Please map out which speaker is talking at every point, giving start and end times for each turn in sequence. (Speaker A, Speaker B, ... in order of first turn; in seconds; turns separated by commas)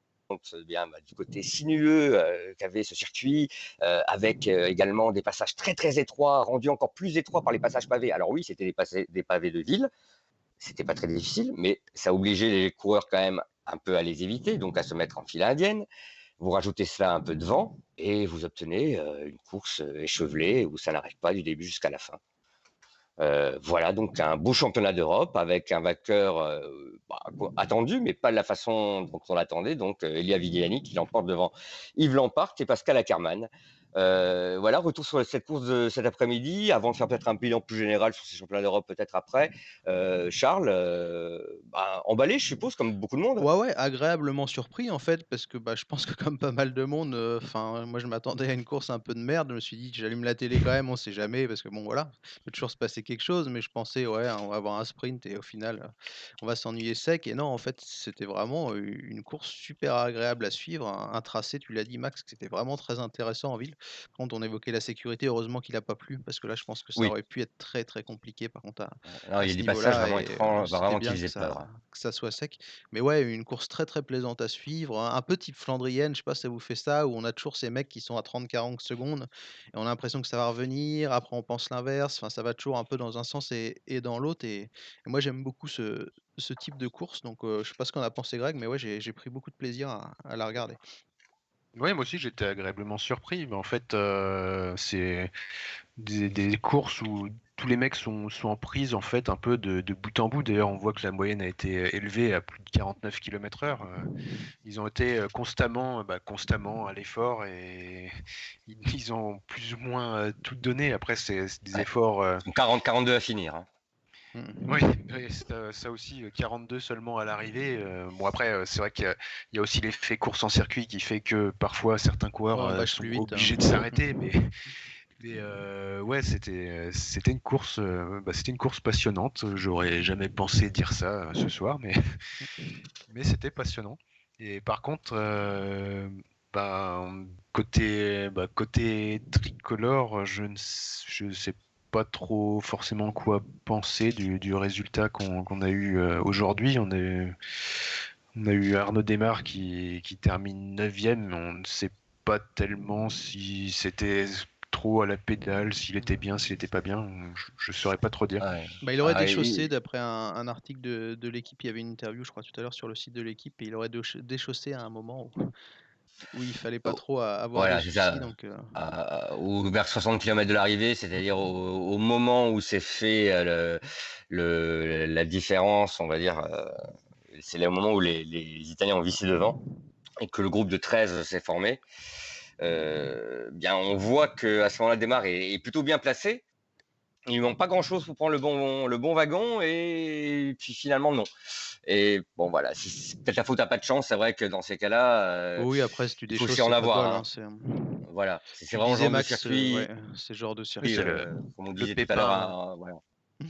Speaker A: 0.3-9.9, Speaker A: 10.6-15.9, Speaker A: 16.4-22.2, Speaker A: 23.2-43.5, Speaker B: 43.4-55.9, Speaker B: 56.4-90.8, Speaker A: 69.1-71.7, Speaker C: 91.8-95.3, Speaker C: 96.0-104.1, Speaker C: 104.7-108.1, Speaker C: 108.7-112.4, Speaker A: 112.5-113.7, Speaker B: 114.3-114.8, Speaker C: 114.7-124.5, Speaker B: 122.5-124.0, Speaker C: 125.2-132.0, Speaker C: 133.1-147.3, Speaker C: 148.3-158.5, Speaker A: 158.4-159.7, Speaker B: 158.8-165.3, Speaker B: 166.3-168.7, Speaker A: 167.6-176.8, Speaker A: 177.3-179.6, Speaker A: 180.2-181.8, Speaker A: 182.6-186.4, Speaker A: 187.3-191.3, Speaker A: 191.9-195.7, Speaker B: 195.6-198.0, Speaker A: 196.3-197.2, Speaker A: 198.1-199.9, Speaker B: 198.7-201.1, Speaker C: 200.8-202.6, Speaker A: 200.8-203.0